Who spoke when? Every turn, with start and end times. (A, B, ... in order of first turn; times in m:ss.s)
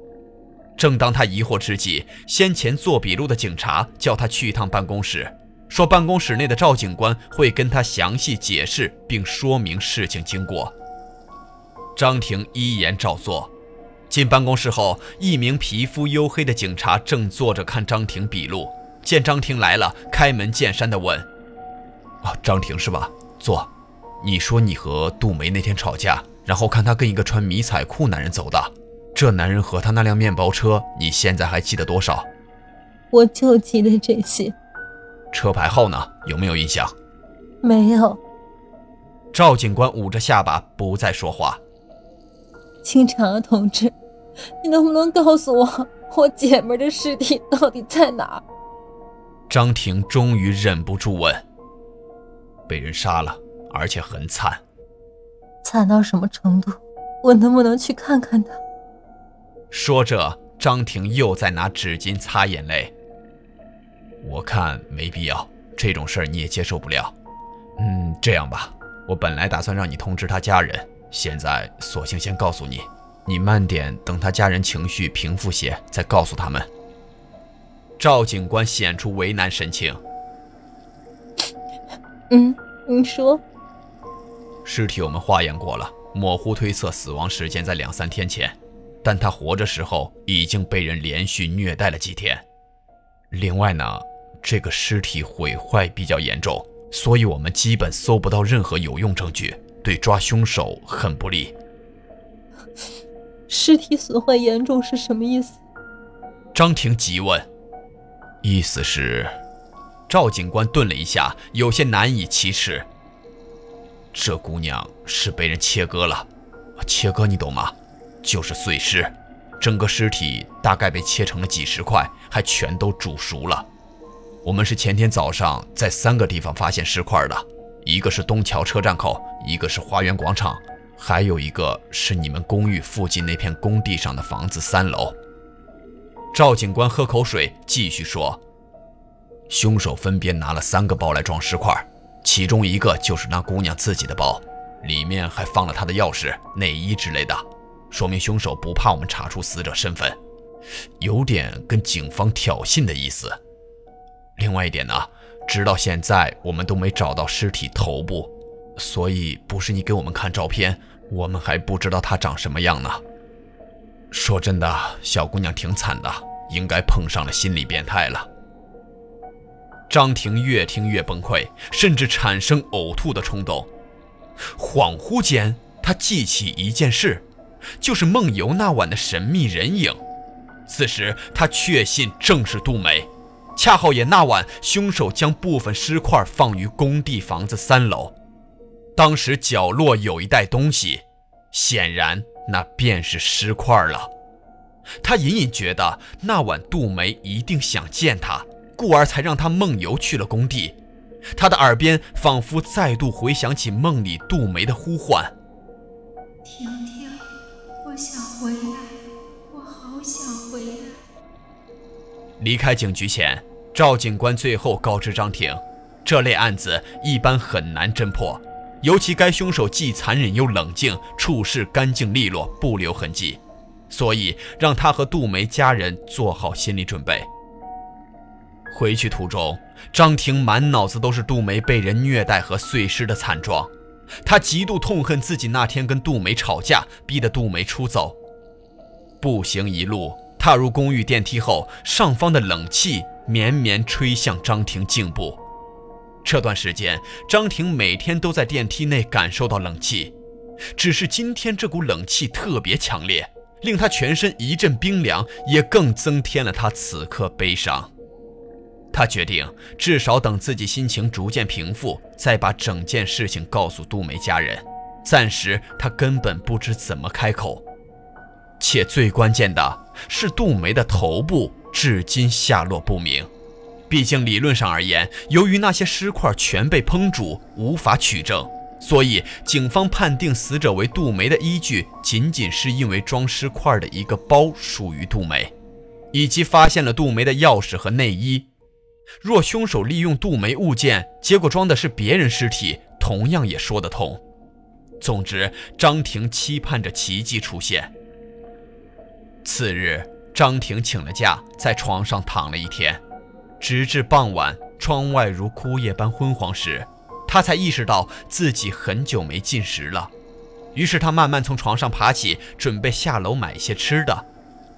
0:00.8-0:10.7 A
0:12.0-0:13.5 A
0:14.1-0:21.3 A
0:22.2-0:23.7 A
0:24.2-0:32.3 A
0:33.1-0:34.6 B
0:35.3-0:36.9 A
0:37.6-0:38.2 B
0:39.3-0:41.6 A
0:42.8-0:44.0 B
0:44.6-0:48.4 B
0:49.5-0:51.4 A
0:52.7-0:54.6 A
0:55.6-0:58.6 B
0:59.7-1:02.9 A
1:04.2-1:07.1 A
1:07.8-1:16.7 A
1:18.0-1:20.0 A
1:22.3-1:23.4 B
1:24.6-1:32.4 A
1:33.3-1:41.6 A
1:43.5-1:45.6 B
1:46.5-1:47.5 A
1:48.4-1:49.4 A
1:50.1-1:52.9 A
1:54.1-1:56.3 A
1:56.8-2:03.7 A
2:04.4-2:15.2 A
2:16.3-2:18.4 A
2:19.5-2:30.2 A
2:31.0-2:33.4 A
2:34.4-2:43.0 A
2:44.1-2:48.3 A
2:49.9-2:53.7 A
2:54.5-2:57.3 A
2:57.8-3:00.0 A
3:00.7-3:08.2 A
3:09.0-3:14.1 A
3:15.0-3:20.8 A
3:21.4-3:25.3 A
3:26.4-3:27.2 C
3:27.8-3:28.9 C
3:29.5-3:31.0 C
3:32.4-3:47.3 A
3:48.7-3:53.7 A
3:54.2-3:58.2 A
3:59.2-4:05.4 A
4:06.2-4:10.1 A
4:10.8-4:17.9 A
4:18.9-4:27.6 A
4:28.6-4:33.3 A
4:33.9-4:45.5 A
4:46.1-4:48.5 A
4:49.2-4:54.2 A
4:55.0-4:57.9 A
4:59.4-5:03.0 A
5:03.6-5:10.1 A
5:10.7-5:14.3 A